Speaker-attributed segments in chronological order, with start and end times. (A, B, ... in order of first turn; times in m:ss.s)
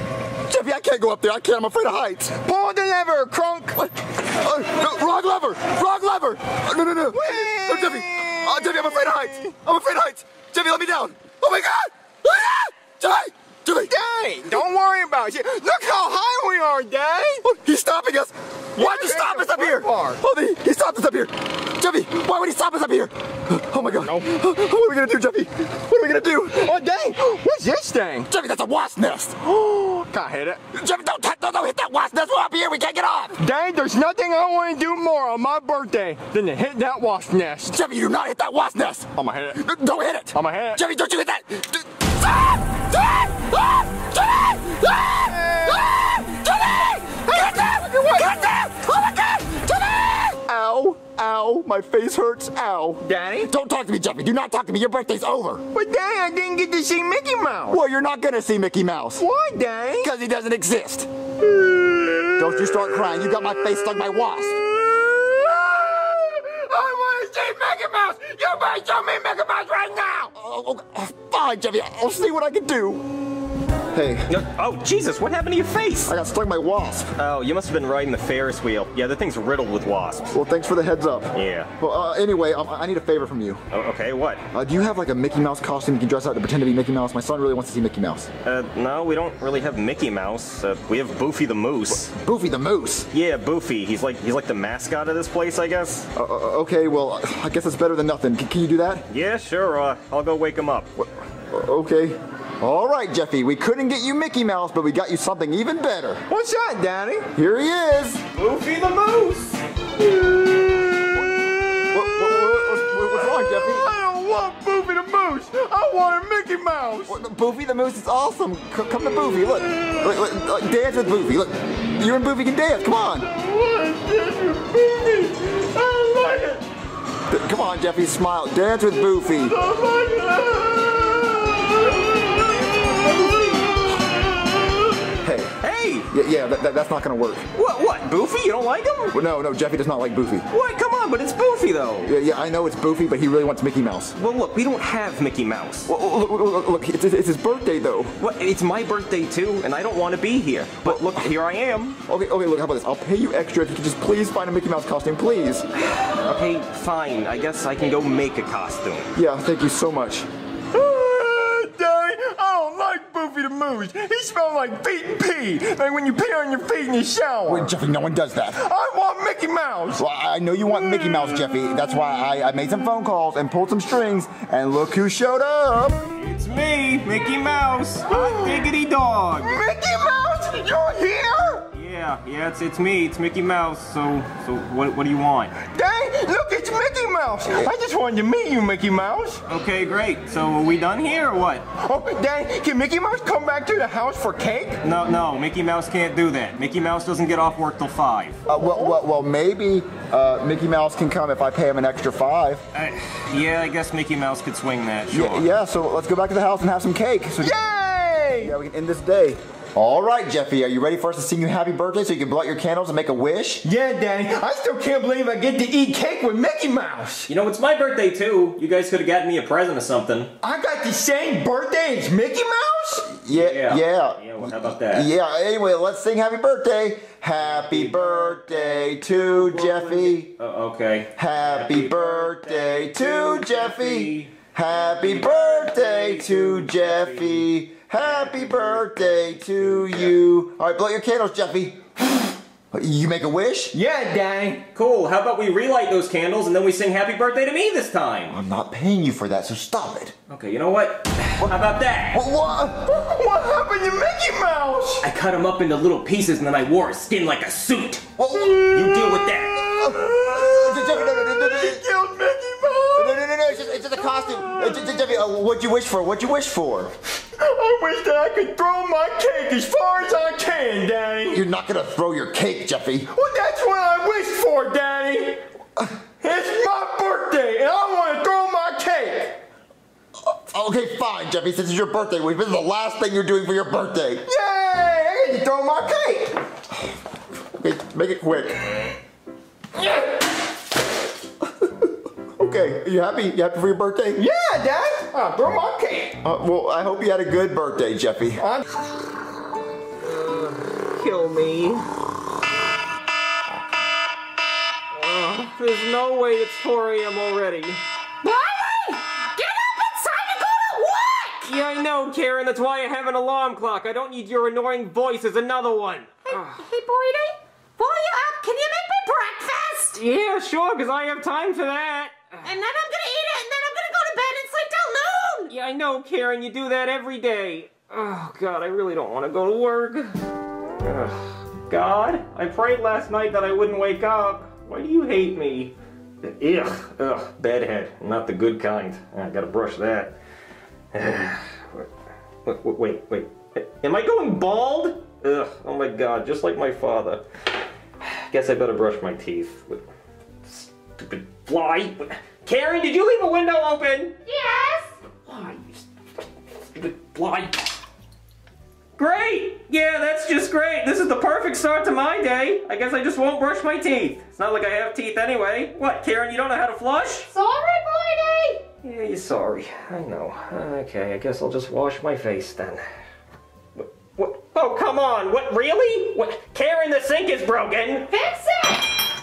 0:00.5-0:02.4 A
0:02.4-0:03.8 B
0:03.8-0:13.9 A
0:07.1-0:09.5 B
0:13.9-0:17.4 B
0:17.4-0:26.7 A
0:18.8-0:20.2 B
0:23.8-0:24.3 B
0:26.5-0:28.3 B
0:28.3-0:29.4 A
0:29.4-0:30.6 B
0:30.7-0:33.4 A
0:33.4-0:37.8 B
0:37.7-0:55.6 A
0:39.2-0:39.6 B
0:40.3-0:40.8 B
0:45.3-0:45.9 B
0:47.3-0:48.5 B
0:53.0-0:53.5 B
0:55.7-0:57.8 B
0:57.7-0:59.3 A
0:59.2-1:00.1 B
1:00.0-1:01.1 A
1:01.4-1:03.5 B
1:02.4-1:04.6 A
1:04.4-1:10.3 B
1:10.3-1:13.1 A
1:13.9-1:14.3 A
1:14.3-1:16.1 C
1:16.1-1:17.1 A
1:17.2-1:20.3 C
1:20.3-1:23.6 A
1:21.3-1:21.7 C
1:23.7-1:24.4 C
1:24.5-1:28.3 A
1:28.4-1:32.1 C
1:32.1-1:33.1 A
1:33.1-1:36.1 C
1:36.2-1:39.1 A
1:39.1-1:40.9 C
1:41.0-1:46.2 A
1:46.3-1:47.3 B
1:47.4-1:48.2 A
1:48.3-1:49.6 C
1:50.0-1:57.2 B
1:51.9-1:53.9 A
1:57.1-2:03.3 A
2:03.3-2:06.7 B
2:07.3-2:09.6 A
2:09.4-2:13.6 B
2:15.2-2:15.6 A
2:15.6-2:16.1 C
2:16.1-2:17.5 A
2:17.5-2:19.2 C
2:19.1-2:20.5 A
2:20.5-2:22.1 C
2:22.0-2:24.1 A
2:24.2-2:25.9 C
2:25.9-2:28.1 A
2:28.2-2:32.0 C
2:30.8-2:31.3 A
2:32.0-2:35.7 A
2:35.8-2:39.1 C
2:39.2-2:40.3 A
2:40.7-2:47.8 B
2:47.5-2:48.6 A
2:48.6-2:50.0 B
2:50.0-2:56.0 A
2:56.2-2:59.7 C
2:58.1-2:58.7 B
2:59.4-3:01.7 B
3:01.8-3:05.6 C
3:05.6-3:09.4 B
3:09.5-3:11.7 C
3:11.8-3:14.8 B
3:14.8-3:18.4 C
3:18.5-3:19.0 B
3:18.5-3:22.6 A
3:22.7-3:25.5 C
3:25.1-3:27.6 A
3:27.4-3:28.6 B
3:28.4-3:33.7 A
3:33.6-3:37.3 B
3:37.3-3:40.4 C
3:40.4-3:43.1 B
3:43.0-3:50.3 A
3:43.3-3:45.1 C
3:47.4-4:00.2 C
3:51.2-4:03.8 A
4:03.7-4:04.7 B
4:04.8-4:08.4 C
4:08.3-4:10.2 A
4:10.3-4:12.2 C
4:12.1-4:12.9 A
4:12.9-4:15.1 B
4:15.0-4:19.7 C
4:18.2-4:18.7 A
4:18.3-4:25.0 B
4:19.7-4:21.8 A
4:23.0-4:26.9 A
4:27.4-4:31.4 B
4:31.3-4:33.1 A
4:33.1-4:35.4 B
4:36.2-4:39.4 B
4:40.2-4:44.2 A
4:44.3-4:46.4 B
4:47.5-4:48.6 A
4:49.8-4:50.2 B
4:51.4-4:54.3 A
4:54.2-4:56.2 B
4:56.2-4:58.4 A
5:00.0-5:01.9 C
5:04.9-5:07.8 C
5:08.2-5:11.5 D
5:11.5-5:16.6 C
5:16.3-5:20.0 D
5:20.0-5:22.4 C
5:22.4-5:25.5 D
5:25.5-5:30.2 C
5:30.8-5:40.2 C
5:40.9-5:41.9 C
5:42.4-5:47.2 C
5:48.0-5:49.8 C
5:50.5-5:54.2 C
5:54.3-5:54.9 D
5:55.3-5:55.9 C
5:56.7-5:57.7 C
5:59.0-6:07.3 C
6:07.3-6:08.6 D
6:08.8-6:12.8 C
6:13.8-6:18.1 C
6:18.1-6:19.0 D